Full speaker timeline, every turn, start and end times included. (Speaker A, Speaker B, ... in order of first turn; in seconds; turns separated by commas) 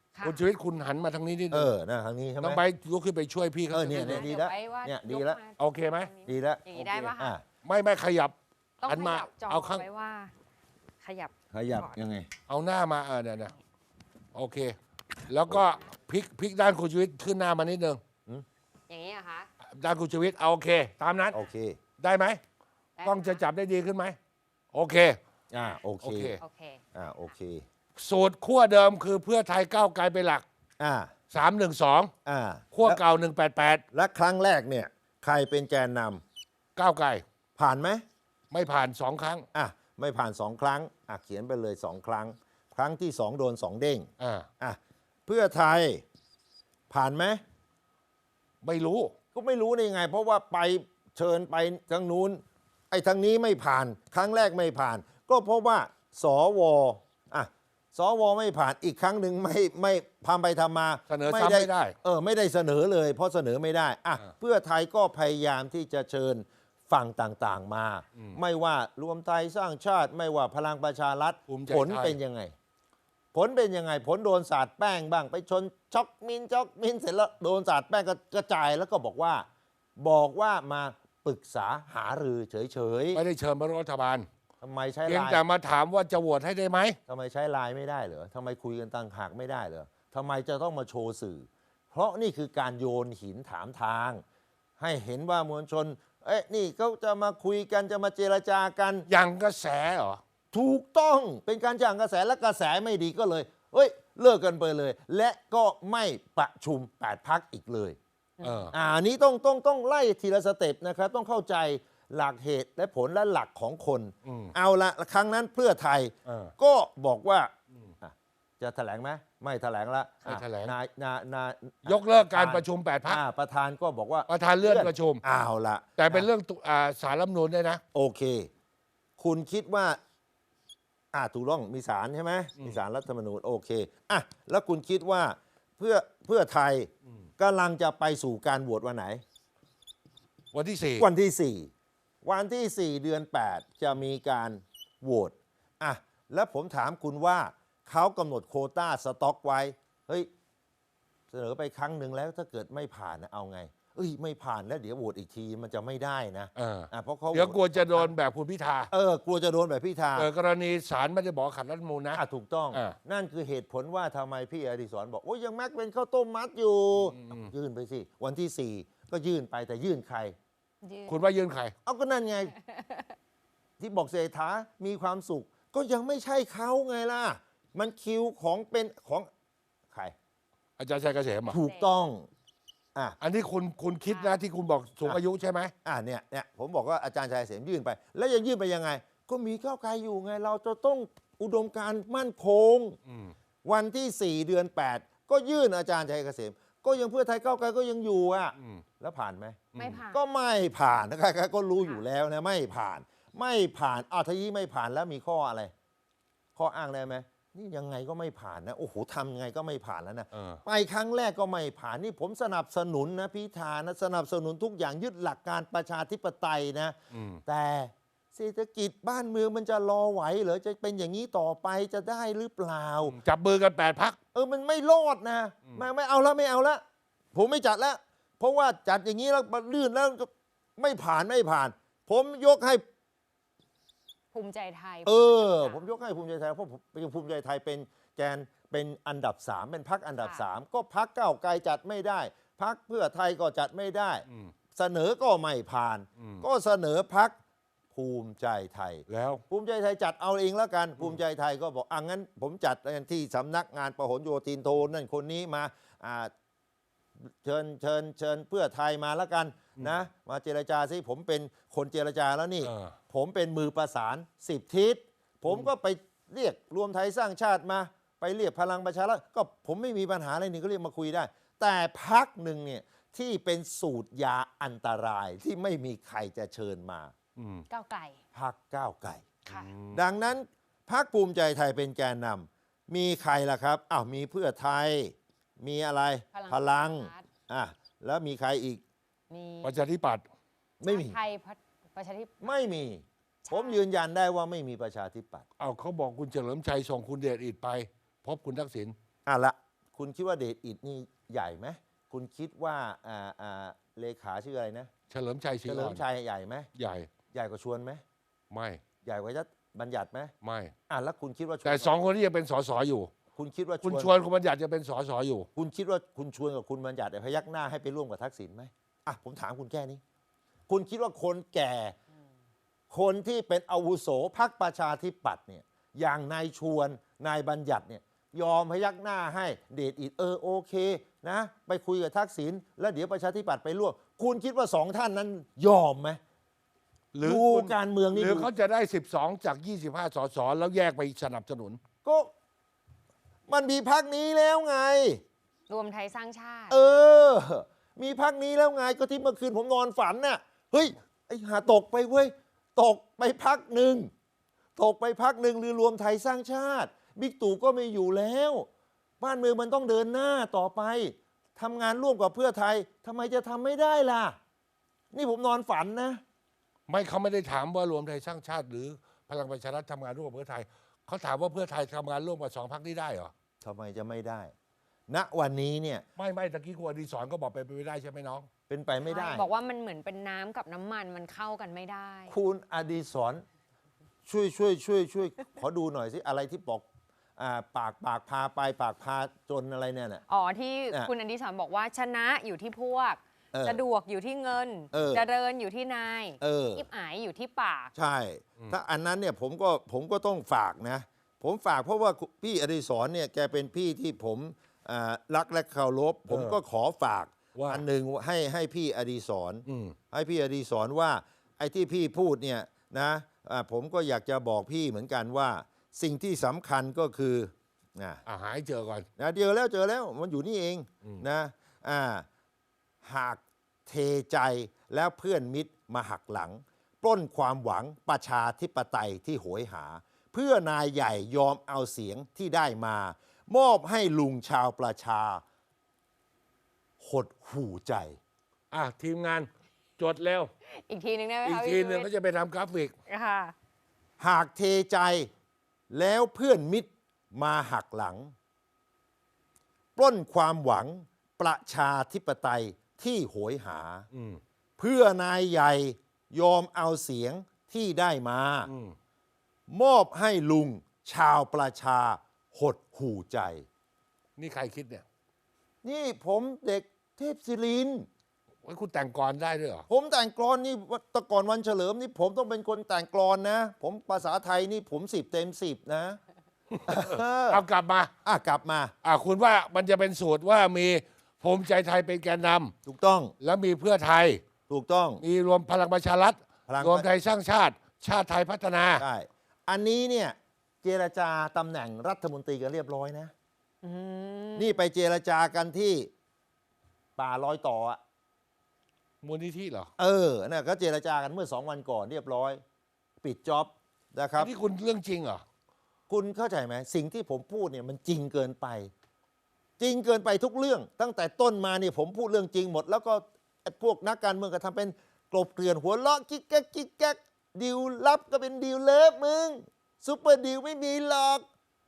Speaker A: 0.1-0.5, Speaker B: 0.2-1.7, Speaker C: 1.5-2.6, Speaker B: 2.4-4.3, Speaker C: 3.7-5.4, Speaker A: 3.9-7.3, Speaker B: 5.6-6.1, Speaker C: 6.2-7.4, Speaker B: 6.8-7.1, Speaker B: 7.6-9.8, Speaker A: 8.8-10.3, Speaker A: 11.0-12.0, Speaker C: 11.5-12.3, Speaker B: 12.5-13.5, Speaker B: 14.3-14.8, Speaker B: 15.3-18.0, Speaker A: 18.9-19.5, Speaker B: 19.7-21.4, Speaker C: 21.3-21.8, Speaker B: 22.0-22.4, Speaker A: 23.0-23.4, Speaker B: 23.0-24.2, Speaker B: 24.7-25.2, Speaker C: 25.5-26.4, Speaker B: 26.0-26.4, Speaker A: 26.4-26.8, Speaker C: 26.9-27.6, Speaker B: 28.0-30.4, Speaker C: 30.8-31.1, Speaker B: 31.3-32.1, Speaker C: 32.2-33.0, Speaker B: 32.7-33.8, Speaker C: 33.9-36.2, Speaker B: 36.8-37.2, Speaker C: 37.6-38.0, Speaker B: 38.5-39.5, Speaker C: 39.5-46.0, Speaker B: 44.2-44.5, Speaker C: 46.9-47.4, Speaker B: 48.6-49.1, Speaker C: 49.3-72.5, Speaker B: 61.1-61.9, Speaker B: 71.5-72.2, Speaker C: 73.3-79.5, Speaker C: 80.0-83.2, Speaker B: 83.1-84.3, Speaker C: 84.6-85.4, Speaker B: 85.1-87.0, Speaker C: 87.1-94.2, Speaker C: 94.8-99.1, Speaker B: 99.1-100.2, Speaker C: 100.5-108.0, Speaker A: 108.4-108.7, Speaker B: 108.4-108.7, Speaker C: 108.7-126.3, Speaker B: 114.2-114.5, Speaker B: 116.2-116.5, Speaker B: 120.2-120.7, Speaker B: 121.9-123.2, Speaker B: 124.3-125.2, Speaker B: 126.0-127.8, Speaker C: 127.9-128.5, Speaker C: 129.2-130.0, Speaker C: 131.1-139.2, Speaker B: 140.5-141.1, Speaker C: 141.0-141.7, Speaker C: 142.2-150.3, Speaker C: 151.3-158.1, Speaker B: 156.6-158.9, Speaker C: 158.9-160.3, Speaker B: 160.2-162.2, Speaker C: 162.1-170.3, Speaker B: 166.9-167.5, Speaker A: 170.8-171.1, Speaker B: 171.1-171.7, Speaker C: 171.8-172.5, Speaker A: 172.5-173.1, Speaker C: 173.8-179.3, Speaker B: 180.8-181.6, Speaker A: 181.4-181.9, Speaker C: 181.5-182.3, Speaker B: 183.2-185.7, Speaker A: 184.1-184.4, Speaker C: 185.8-193.0, Speaker B: 193.1-193.3, Speaker C: 193.6-205.7, Speaker B: 198.6-198.8, Speaker B: 199.7-200.0, Speaker A: 199.8-200.2, Speaker C: 206.6-223.1, Speaker B: 210.3-210.6, Speaker B: 217.1-217.4, Speaker B: 223.0-224.2, Speaker C: 224.3-226.8, Speaker C: 227.3-232.8, Speaker A: 234.3-235.9, Speaker C: 235.0-247.3, Speaker A: 240.2-240.4, Speaker B: 244.3-244.5, Speaker B: 246.2-246.4, Speaker C: 247.9-256.3, Speaker B: 249.1-249.4, Speaker C: 257.2-277.1, Speaker B: 262.6-262.9, Speaker B: 277.4-277.6, Speaker A: 277.7-278.2, Speaker C: 278.3-279.2, Speaker A: 279.4-279.7, Speaker B: 279.5-280.0, Speaker C: 279.9-288.8, Speaker A: 286.3-287.2, Speaker A: 289.3-289.8, Speaker B: 289.6-290.2, Speaker C: 290.8-291.2, Speaker A: 290.9-292.5, Speaker C: 292.4-295.4, Speaker A: 293.4-293.8, Speaker B: 295.6-298.9, Speaker C: 299.2-304.9, Speaker B: 305.1-306.0, Speaker C: 305.6-306.7, Speaker B: 306.8-307.1, Speaker C: 307.3-308.0, Speaker B: 308.5-308.8, Speaker C: 309.0-310.3, Speaker B: 310.4-310.7, Speaker C: 310.9-311.9, Speaker B: 311.6-313.1, Speaker C: 313.3-314.1, Speaker B: 313.8-315.5, Speaker C: 315.6-320.0, Speaker C: 320.7-321.9, Speaker C: 322.9-336.2, Speaker B: 337.1-341.8, Speaker C: 337.2-338.5, Speaker C: 342.0-342.3, Speaker C: 343.5-345.2, Speaker A: 345.7-346.7, Speaker C: 346.7-354.1, Speaker C: 354.8-358.7, Speaker C: 359.2-364.4, Speaker C: 365.1-366.2, Speaker B: 366.9-373.3, Speaker C: 373.6-374.5, Speaker C: 375.1-376.1, Speaker B: 376.2-378.5, Speaker C: 378.7-379.5, Speaker A: 379.1-382.3, Speaker C: 382.3-383.4, Speaker C: 384.2-386.9, Speaker C: 387.4-390.2, Speaker A: 390.3-397.9, Speaker C: 393.5-393.8, Speaker C: 394.9-395.2, Speaker C: 396.4-396.8, Speaker C: 397.9-418.2, Speaker B: 406.3-406.6, Speaker B: 407.5-407.8, Speaker B: 409.6-409.9, Speaker B: 418.2-419.1, Speaker C: 419.2-422.2, Speaker C: 423.0-435.4, Speaker C: 437.0-438.2, Speaker B: 438.7-440.5, Speaker A: 440.6-442.1, Speaker B: 441.4-442.9, Speaker A: 443.1-443.5, Speaker C: 444.2-445.3, Speaker C: 445.9-448.3, Speaker C: 449.9-454.1, Speaker B: 454.1-454.4, Speaker C: 454.8-458.7, Speaker B: 458.6-458.9, Speaker C: 459.7-463.6, Speaker B: 464.4-465.0, Speaker C: 465.8-468.1, Speaker B: 468.6-469.9, Speaker C: 469.9-476.2, Speaker B: 476.7-478.1, Speaker C: 476.9-477.6, Speaker C: 478.2-478.9, Speaker B: 479.0-482.7, Speaker C: 482.9-483.3, Speaker B: 483.4-484.4, Speaker C: 484.7-485.2, Speaker B: 485.2-489.0, Speaker C: 486.7-487.1, Speaker C: 489.0-493.3, Speaker A: 493.8-494.8, Speaker C: 494.6-496.1, Speaker C: 497.2-498.0, Speaker B: 499.2-499.9, Speaker C: 500.0-502.6, Speaker C: 503.2-504.5, Speaker B: 504.4-505.4, Speaker C: 506.1-508.9, Speaker C: 509.8-521.4